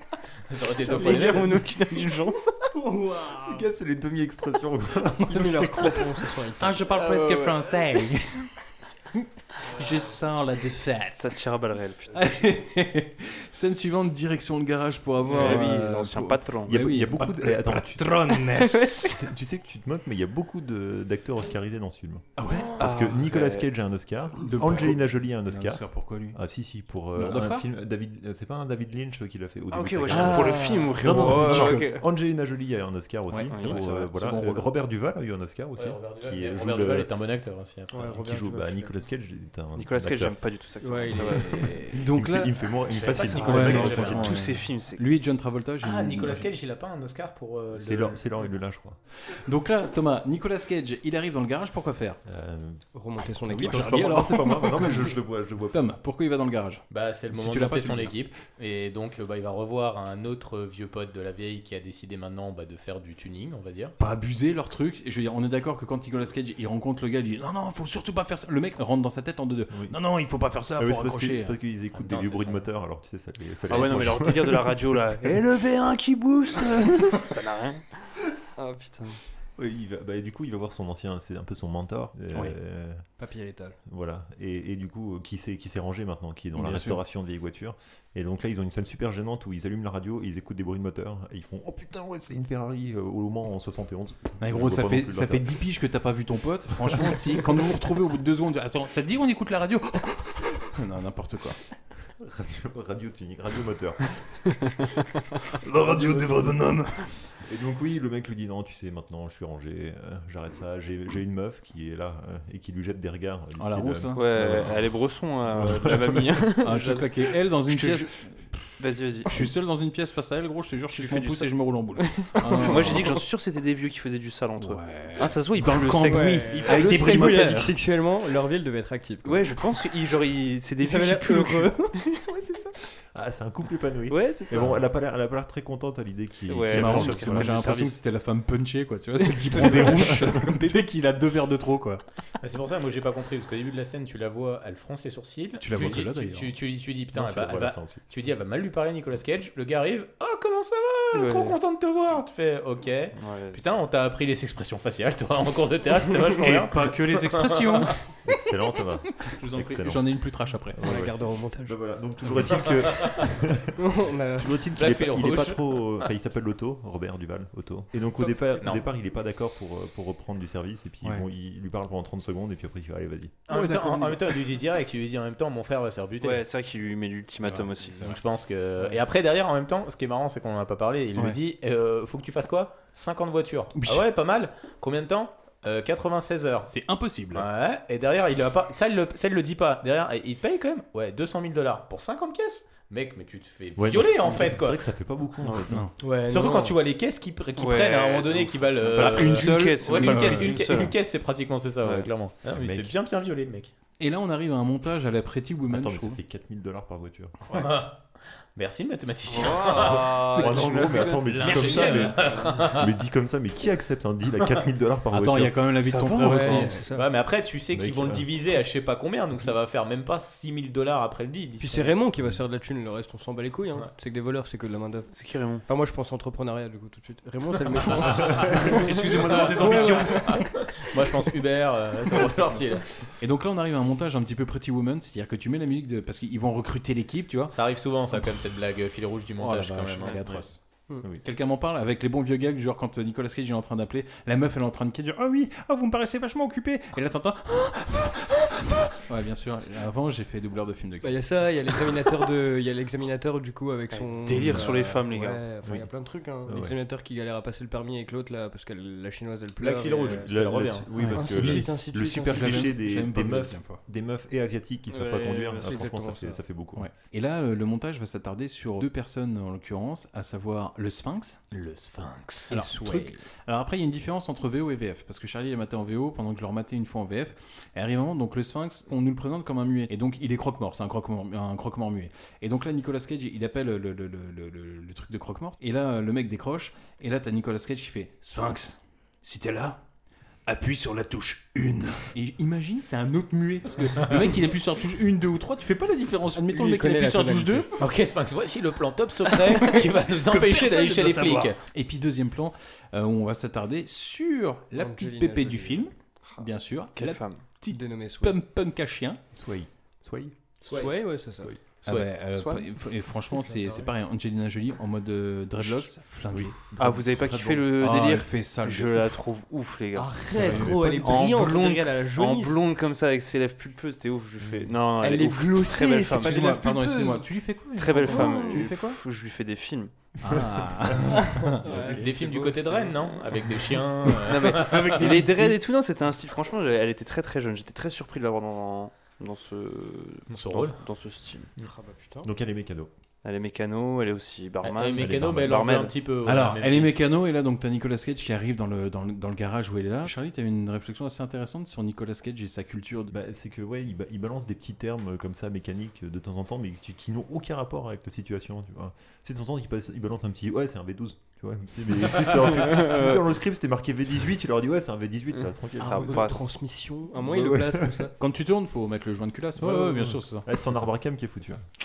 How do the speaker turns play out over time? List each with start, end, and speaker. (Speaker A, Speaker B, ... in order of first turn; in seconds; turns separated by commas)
Speaker A: 0.5-1.5, Speaker B: 0.8-2.0, Speaker C: 0.8-2.5, Speaker B: 2.7-3.6, Speaker D: 3.5-5.7, Speaker B: 5.3-6.8, Speaker E: 5.3-6.0, Speaker E: 6.6-8.5, Speaker C: 7.1-7.5, Speaker E: 9.6-11.3, Speaker C: 11.2-12.4, Speaker E: 12.1-19.2, Speaker C: 15.2-16.8, Speaker D: 15.3-15.7, Speaker D: 16.7-18.3, Speaker C: 18.6-19.0, Speaker D: 19.0-37.1, Speaker E: 22.4-22.9, Speaker C: 22.8-23.6, Speaker E: 24.4-26.4, Speaker E: 27.1-27.7, Speaker C: 29.7-32.0, Speaker E: 30.1-31.8, Speaker E: 33.3-34.7, Speaker C: 33.5-33.8, Speaker A: 35.8-38.0, Speaker B: 37.9-38.9, Speaker D: 38.0-40.4, Speaker C: 39.8-41.7, Speaker B: 40.8-42.0, Speaker D: 41.1-44.4, Speaker E: 41.9-42.5, Speaker A: 42.9-44.3, Speaker C: 43.1-45.1, Speaker E: 43.4-46.4, Speaker A: 45.8-48.2, Speaker D: 47.7-49.0, Speaker E: 49.2-52.2, Speaker D: 52.2-52.8, Speaker B: 52.9-54.0, Speaker D: 53.5-55.8, Speaker E: 53.5-55.1, Speaker E: 55.7-58.3, Speaker A: 56.9-63.9, Speaker E: 64.0-71.5, Speaker D: 69.7-70.0, Speaker D: 70.8-75.4, Speaker A: 71.9-72.6, Speaker C: 73.7-78.0, Speaker C: 78.6-79.2, Speaker D: 79.6-83.0, Speaker B: 83.2-83.8, Speaker D: 83.9-95.5, Speaker E: 86.5-87.0, Speaker E: 94.4-101.6, Speaker D: 102.2-104.2, Speaker E: 105.6-107.2, Speaker D: 105.8-106.5, Speaker D: 107.4-114.8, Speaker E: 113.6-114.7, Speaker C: 114.1-118.1, Speaker D: 115.5-116.3, Speaker E: 116.6-123.2, Speaker C: 118.8-119.5, Speaker C: 120.9-127.4, Speaker E: 124.6-127.8, Speaker B: 126.1-129.9, Speaker C: 129.2-132.7, Speaker B: 130.8-132.0, Speaker D: 133.1-137.6, Speaker C: 134.1-134.8, Speaker C: 136.4-138.0, Speaker E: 136.7-142.0, Speaker C: 139.4-140.7, Speaker A: 142.4-157.9, Speaker E: 145.6-146.5, Speaker D: 147.1-148.0, Speaker C: 151.1-151.6, Speaker C: 153.2-153.7, Speaker E: 156.4-158.0, Speaker D: 158.2-163.8, Speaker E: 159.2-160.8, Speaker B: 160.8-161.8, Speaker A: 162.6-163.2, Speaker B: 163.8-164.7, Speaker D: 164.3-173.3, Speaker A: 164.8-166.1, Speaker A: 168.6-168.8, Speaker A: 173.5-176.4, Speaker E: 173.5-174.4, Speaker C: 176.2-178.2, Speaker E: 177.4-178.2, Speaker A: 178.1-186.7, Speaker E: 183.8-184.0, Speaker E: 186.7-187.4, Speaker A: 187.3-194.8, Speaker D: 193.8-195.9, Speaker E: 195.7-195.9, Speaker B: 196.0-196.8, Speaker A: 196.3-203.7, Speaker C: 197.6-200.9, Speaker E: 198.9-200.9, Speaker D: 202.4-202.9, Speaker E: 204.0-206.2, Speaker D: 205.7-207.4, Speaker A: 207.5-208.0, Speaker A: 208.6-212.9, Speaker C: 209.3-212.1, Speaker D: 209.5-215.6, Speaker E: 215.1-216.8, Speaker C: 215.8-216.8, Speaker B: 216.3-217.0, Speaker A: 216.9-222.0, Speaker D: 217.7-218.2, Speaker B: 221.6-225.1, Speaker C: 225.1-225.6, Speaker B: 225.6-230.4, Speaker A: 227.8-228.3, Speaker E: 228.1-230.5, Speaker A: 229.3-233.0, Speaker E: 233.2-237.6, Speaker A: 237.5-240.2, Speaker E: 239.4-240.6, Speaker E: 241.2-251.3, Speaker B: 251.0-262.7, Speaker C: 253.9-255.4, Speaker D: 255.6-255.9, Speaker D: 256.4-256.7, Speaker A: 259.6-260.9, Speaker D: 260.2-266.9, Speaker E: 260.9-261.7, Speaker E: 262.2-263.8, Speaker C: 264.9-265.8, Speaker B: 265.5-266.4, Speaker E: 266.8-271.4, Speaker A: 271.5-273.1, Speaker E: 272.5-289.8, Speaker E: 290.4-297.9, Speaker B: 296.4-297.7, Speaker A: 297.8-301.6, Speaker E: 299.3-309.2, Speaker B: 304.7-305.9, Speaker C: 306.9-307.4, Speaker B: 307.6-308.4, Speaker D: 309.3-310.3, Speaker A: 310.6-310.9, Speaker B: 310.6-311.5, Speaker A: 311.8-312.1, Speaker E: 311.8-316.6, Speaker C: 312.2-312.7, Speaker B: 313.4-313.9, Speaker D: 315.6-317.7, Speaker C: 316.8-320.4, Speaker E: 317.8-319.1, Speaker B: 319.9-322.7, Speaker E: 320.3-321.2, Speaker C: 321.0-326.4, Speaker E: 324.4-324.7, Speaker B: 325.0-327.3, Speaker E: 325.6-329.0, Speaker C: 327.7-329.9, Speaker B: 328.1-328.7, Speaker E: 330.2-332.1, Speaker B: 331.3-333.0, Speaker A: 331.8-335.0, Speaker E: 334.1-335.6, Speaker C: 334.2-341.5, Speaker A: 340.3-340.8, Speaker B: 341.6-342.3, Speaker D: 342.2-342.9, Speaker C: 343.2-345.9, Speaker A: 344.6-347.0, Speaker D: 345.0-345.3, Speaker E: 346.2-353.1, Speaker D: 353.1-366.3, Speaker C: 365.8-366.5, Speaker B: 365.8-368.1, Speaker D: 367.2-368.1, Speaker E: 368.2-370.9, Speaker D: 369.6-371.6